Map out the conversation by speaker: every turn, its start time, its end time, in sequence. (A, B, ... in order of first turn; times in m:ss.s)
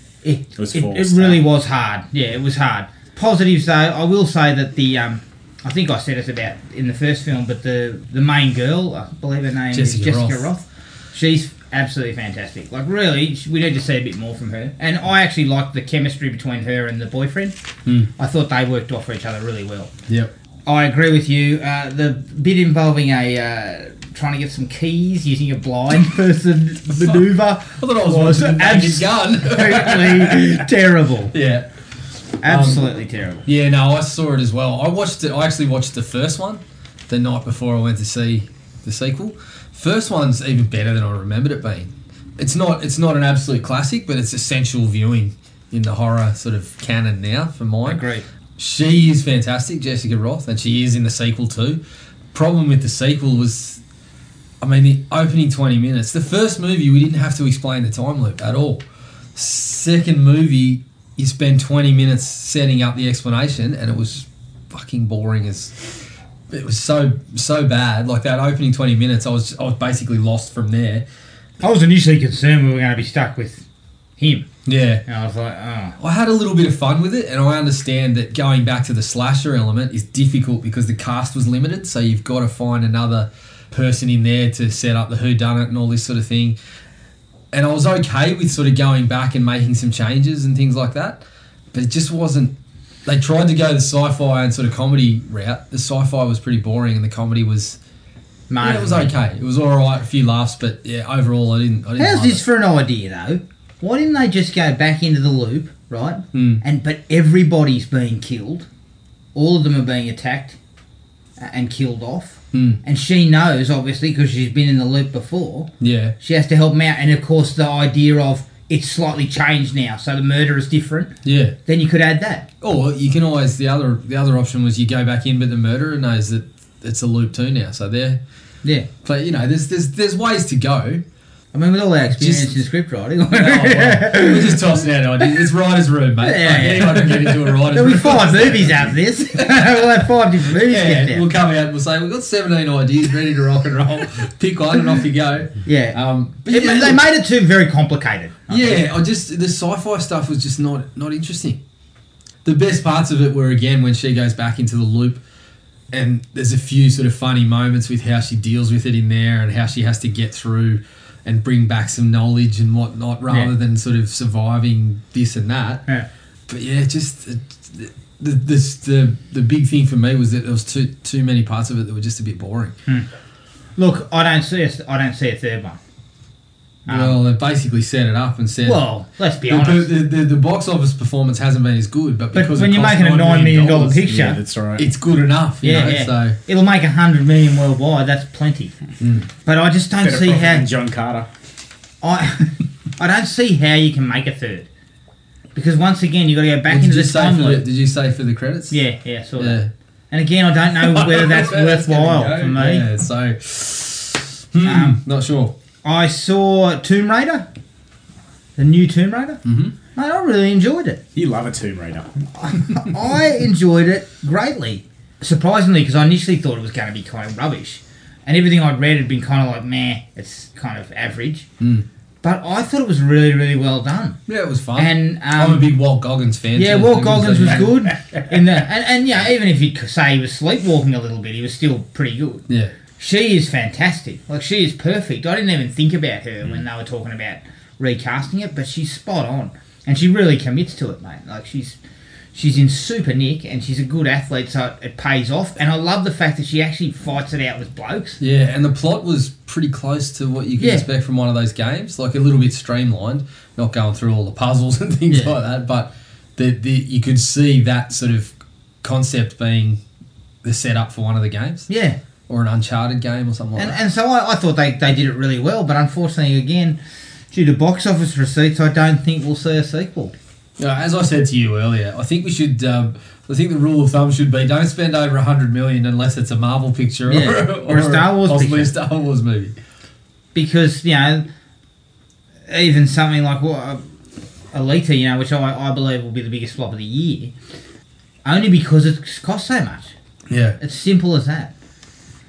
0:00.2-0:17.6 A
0:00.6-0:01.4 B
0:09.7-0:10.5 C
0:18.2-0:19.9 A
0:20.7-0:31.3 A
0:27.0-0:30.6 C
0:31.3-0:31.7 C
0:32.4-0:33.4 A
0:32.4-0:32.9 C
0:33.4-0:48.0 C
0:47.8-0:48.3 A
0:48.6-0:51.8 C
0:52.3-0:53.8 C
0:54.6-0:58.8 C
0:59.4-1:05.9 C
1:06.5-1:11.0 C
1:11.6-1:13.6 A
1:14.2-1:14.5 A
1:14.7-1:15.0 C
1:15.1-1:16.0 A
1:16.0-1:26.6 C
1:27.5-1:32.5 C
1:33.1-1:37.8 C
1:38.5-1:39.1 A
1:38.6-1:42.4 C
1:42.0-1:48.7 A
1:46.3-1:46.6 C
1:49.4-1:50.6 A
1:51.4-1:55.7 A
1:52.5-1:52.8 C
1:55.8-1:56.1 C
1:56.2-2:01.1 A
2:01.2-2:01.6 C
2:01.7-2:02.5 A
2:02.6-2:08.2 C
2:09.0-2:11.0 C
2:11.5-2:14.8 A
2:12.2-2:12.5 C
2:13.3-2:19.8 C
2:16.2-2:21.2 A
2:20.5-2:27.0 C
2:25.6-2:28.8 A
2:28.5-2:31.6 C
2:32.4-2:35.2 C
2:35.9-2:45.8 C
2:46.5-2:52.7 C
2:53.8-2:55.8 A
2:56.9-2:57.2 A
2:56.9-2:58.8 C
2:58.6-2:59.9 A
2:59.5-3:04.1 C
3:02.3-3:04.4 A
3:04.0-3:04.9 B
3:04.8-3:06.4 C
3:05.6-3:08.8 A
3:09.0-3:09.3 C
3:09.4-3:10.6 A
3:10.0-3:11.3 B
3:12.0-3:14.7 A
3:15.5-3:17.6 A
3:16.7-3:18.8 C
3:18.7-3:19.6 A
3:19.4-3:19.7 C
3:20.1-3:22.8 A
3:20.8-3:25.5 C
3:24.6-3:25.0 A
3:25.8-3:27.5 A
3:28.6-3:29.4 A
3:29.4-3:29.8 C
3:30.0-3:31.0 A
3:31.2-3:32.2 B
3:32.4-3:41.5 A
3:41.6-3:41.9 C
3:42.2-3:44.2 A
3:44.3-3:47.9 C
3:44.8-3:45.7 A
3:46.6-3:52.4 A
3:53.0-4:01.8 A
4:02.3-4:08.2 A
4:08.2-4:19.8 C
4:10.6-4:10.8 A
4:20.4-4:21.7 C
4:21.7-4:22.0 A
4:22.3-4:23.8 C
4:23.6-4:26.8 A
4:27.3-4:30.1 A
4:30.6-4:39.6 C
4:37.1-4:38.7 A
4:40.4-4:41.3 A
4:42.5-4:43.8 A
4:44.5-4:47.3 A
4:48.2-4:49.9 A
4:50.3-4:50.6 C
4:50.6-4:51.5 A